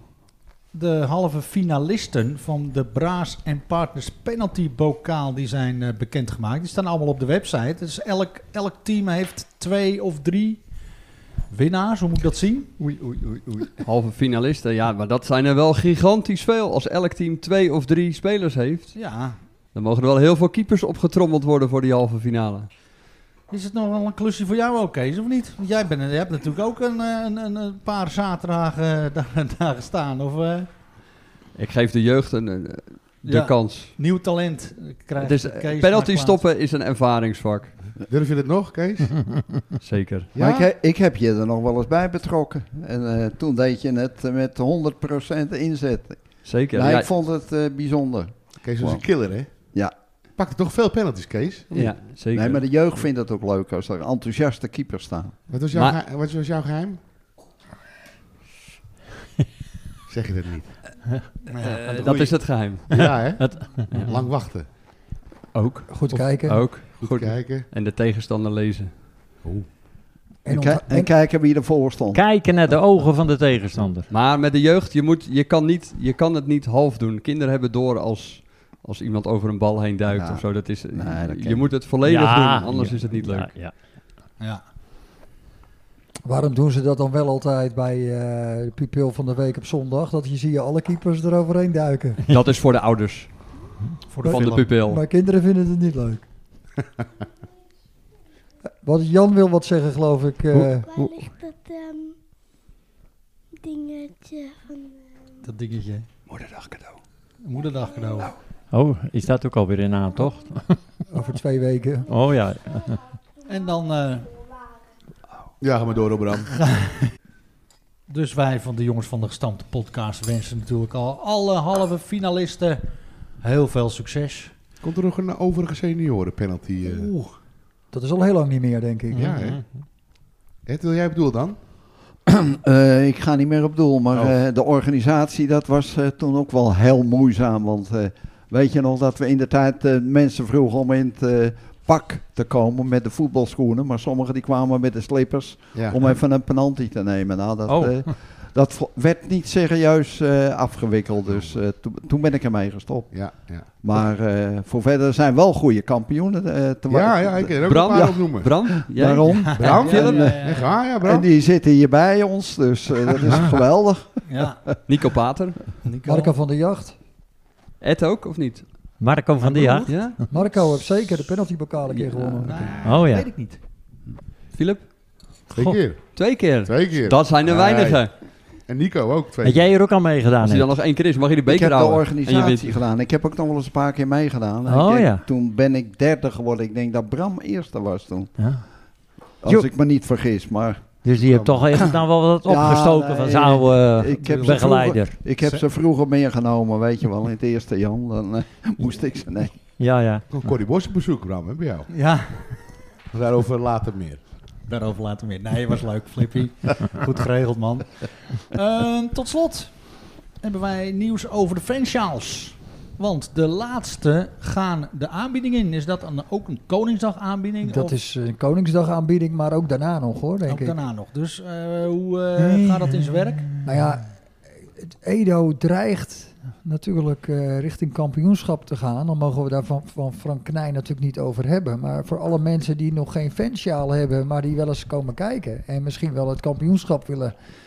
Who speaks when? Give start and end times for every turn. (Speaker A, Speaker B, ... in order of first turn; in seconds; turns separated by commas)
Speaker A: 0.7-10.6, Speaker A: 11.5-12.7, Speaker B: 12.8-19.0, Speaker A: 18.9-19.4, Speaker B: 19.7-22.7, Speaker A: 23.5-30.7, Speaker B: 31.5-33.9, Speaker A: 33.2-36.4, Speaker B: 35.2-37.8, Speaker C: 38.1-39.2, Speaker B: 39.8-40.3, Speaker C: 40.3-40.7, Speaker D: 40.4-49.9, Speaker B: 46.4-47.1, Speaker C: 48.6-49.7, Speaker C: 50.4-51.7, Speaker B: 51.7-52.6, Speaker D: 51.7-55.4, Speaker C: 55.5-57.0, Speaker C: 60.1-60.9, Speaker A: 61.5-61.8, Speaker B: 61.6-63.1, Speaker E: 61.9-62.3, Speaker C: 62.9-64.7, Speaker E: 63.4-64.2, Speaker B: 65.5-68.9, Speaker F: 65.9-66.7, Speaker C: 66.9-67.7, Speaker F: 70.4-71.1, Speaker D: 70.5-72.2, Speaker E: 72.1-74.1, Speaker B: 74.1-83.5, Speaker D: 80.1-81.8, Speaker E: 82.0-83.8, Speaker F: 86.2-92.2, Speaker B: 92.3-93.3, Speaker A: 94.1-94.6, Speaker F: 94.2-96.2, Speaker B: 94.2-95.0, Speaker F: 98.8-100.9, Speaker G: 100.8-102.2, Speaker G: 103.6-105.2, Speaker A: 105.4-106.1, Speaker A: 107.4-108.3, Speaker E: 108.7-110.8, Speaker F: 111.1-112.1, Speaker E: 112.1-113.0, Speaker A: 113.5-114.3, Speaker C: 115.6-116.5, Speaker A: 116.6-117.1, Speaker A: 118.1-122.8, Speaker A: 123.4-124.5, Speaker C: 124.8-127.1, Speaker A: 126.8-127.4, Speaker F: 127.9-129.3, Speaker C: 129.1-129.6, Speaker E: 129.2-129.6, Speaker C: 130.7-131.6, Speaker D: 132.3-164.2, Speaker C: 145.7-146.0, Speaker E: 147.7-148.1, Speaker C: 153.1-153.8, Speaker C: 156.9-158.5, Speaker B: 157.7-160.3, Speaker A: 159.4-160.7, Speaker C: 159.5-161.3, Speaker E: 163.2-163.6, Speaker A: 164.3-164.6, Speaker B: 164.9-165.7, Speaker A: 165.8-166.3, Speaker F: 166.0-166.9, Speaker B: 167.8-168.7, Speaker E: 169.0-170.1, Speaker A: 169.4-170.2, Speaker B: 169.9-170.2, Speaker F: 170.3-172.8, Speaker B: 171.9-172.4, Speaker A: 172.4-173.6, Speaker E: 172.8-173.3, Speaker B: 174.5-174.9, Speaker E: 175.5-175.9, Speaker C: 175.5-179.7, Speaker B: 176.1-178.1, Speaker E: 179.4-180.8, Speaker B: 180.4-182.8, Speaker D: 181.4-188.4, Speaker E: 184.7-185.3, Speaker E: 188.4-188.7, Speaker D: 189.4-191.9, Speaker E: 191.0-195.2, Speaker D: 192.4-199.6, Speaker A: 194.1-194.8, Speaker E: 198.8-200.3, Speaker C: 200.3-201.9, Speaker A: 201.9-202.6, Speaker C: 203.1-204.2, Speaker A: 204.6-218.0, Speaker F: 217.6-220.8, Speaker A: 220.4-223.4, Speaker E: 222.8-223.6, Speaker F: 223.6-224.1, Speaker F: 224.6-237.3